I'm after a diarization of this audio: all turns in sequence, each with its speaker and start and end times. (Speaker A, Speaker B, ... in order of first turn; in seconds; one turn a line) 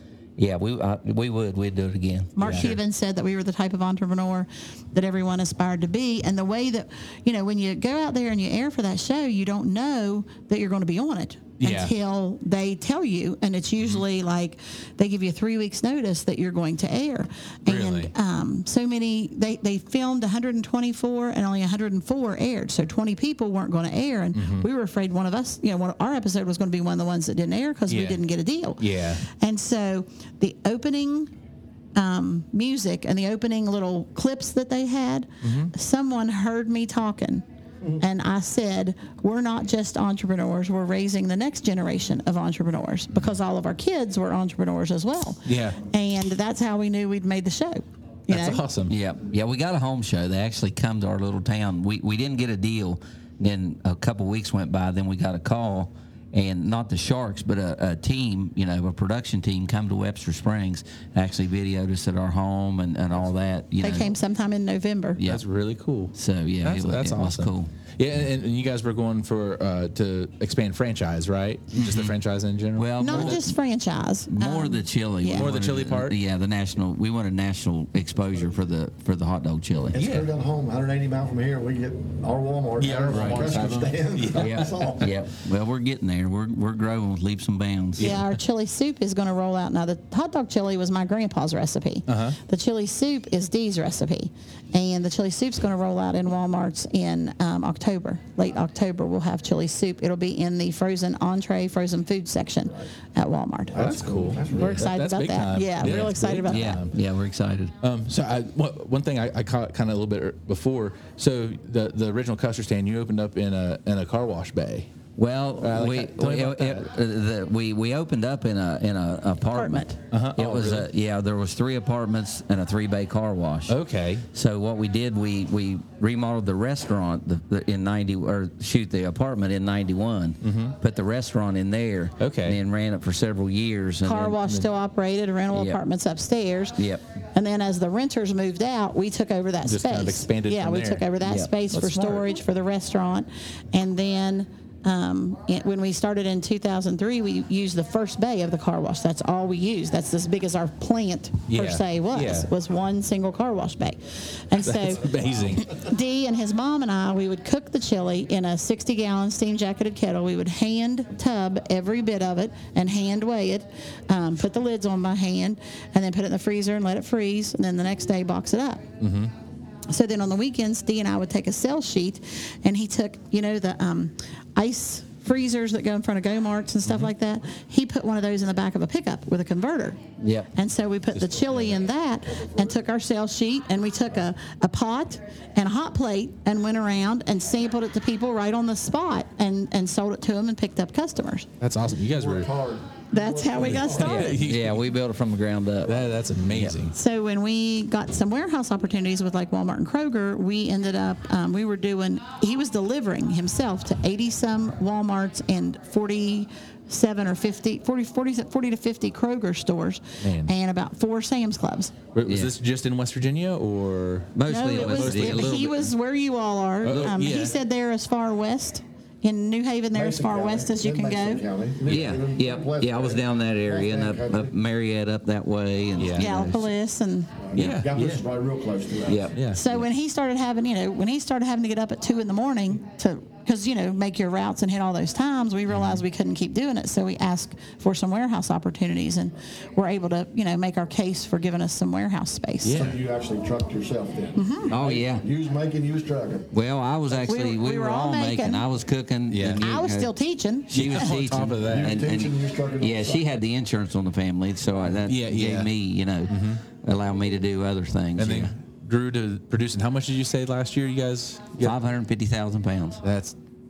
Speaker A: 0.4-2.7
Speaker B: 2.4-31.3
Speaker C: 2.4-2.7
Speaker C: 11.6-11.9
Speaker C: 17.7-18.1
Speaker C: 24.3-24.6
Speaker C: 27.9-28.2
Speaker C: 28.8-29.2
Speaker B: 31.9-37.4
Speaker C: 35.4-35.7
Speaker B: 38.0-48.6
Speaker C: 45.4-45.8
Speaker C: 48.3-48.9
Speaker A: 48.9-64.1
Speaker B: 63.8-65.2
Speaker A: 65.2-65.4
Speaker C: 65.2-73.5
Speaker A: 66.1-67.7
Speaker A: 71.7-72.1
Speaker A: 72.8-73.5
Speaker B: 73.0-75.5
Speaker A: 74.3-80.0
Speaker C: 75.3-76.2
Speaker C: 79.9-80.3
Speaker D: 79.9-85.2
Speaker C: 82.8-84.9
Speaker A: 83.1-83.5
Speaker A: 84.4-88.2
Speaker C: 88.0-88.2
Speaker B: 88.0-103.9
Speaker C: 92.1-92.4
Speaker D: 103.7-104.9
Speaker C: 103.7-106.9
Speaker B: 104.5-106.8
Speaker A: 106.5-107.7
Speaker C: 107.8-114.9
Speaker A: 115.2-123.8
Speaker C: 115.6-116.9
Speaker B: 119.5-120.0
Speaker C: 120.1-120.9
Speaker C: 123.7-124.2
Speaker A: 124.3-134.6
Speaker C: 130.4-130.8
Speaker C: 132.2-132.6
Speaker B: 134.0-168.8
Speaker A: 135.5-135.8
Speaker A: 136.8-137.0
Speaker C: 139.6-141.1
Speaker A: 141.2-141.5
Speaker C: 141.7-142.2
Speaker C: 151.5-152.5
Speaker C: 154.6-155.7
Speaker C: 169.0-169.3
Speaker B: 169.9-180.0
Speaker C: 176.8-177.1
Speaker A: 180.2-180.5
Speaker B: 180.5-191.5
Speaker C: 181.2-181.8
Speaker D: 182.3-182.8
Speaker C: 191.6-192.5
Speaker D: 192.1-194.2
Speaker B: 193.1-194.4
Speaker C: 193.6-194.9
Speaker A: 193.9-196.8
Speaker C: 195.8-196.9
Speaker B: 196.9-211.9
Speaker C: 210.2-210.5
Speaker C: 212.1-215.8
Speaker A: 212.2-212.5
Speaker A: 214.3-215.7
Speaker B: 214.5-221.4
Speaker C: 216.8-217.5
Speaker A: 216.8-217.2
Speaker D: 219.9-224.5
Speaker A: 221.8-226.7
Speaker C: 226.0-226.3
Speaker B: 226.2-227.4
Speaker D: 227.4-229.3
Speaker C: 227.5-228.2
Speaker A: 229.0-229.3
Speaker C: 229.3-229.8
Speaker B: 229.5-242.8
Speaker C: 235.7-236.0
Speaker C: 242.6-243.0
Speaker D: 242.7-246.5
Speaker B: 244.3-244.7
Speaker A: 244.7-245.2
Speaker A: 246.5-250.1
Speaker D: 247.1-247.3
Speaker B: 247.3-248.7
Speaker C: 249.3-249.6
Speaker B: 249.6-250.8
Speaker C: 250.7-252.0
Speaker A: 250.7-258.5
Speaker D: 251.6-253.3
Speaker C: 255.0-255.7
Speaker C: 256.3-256.6
Speaker C: 258.1-261.8
Speaker A: 261.6-263.0
Speaker C: 263.0-263.4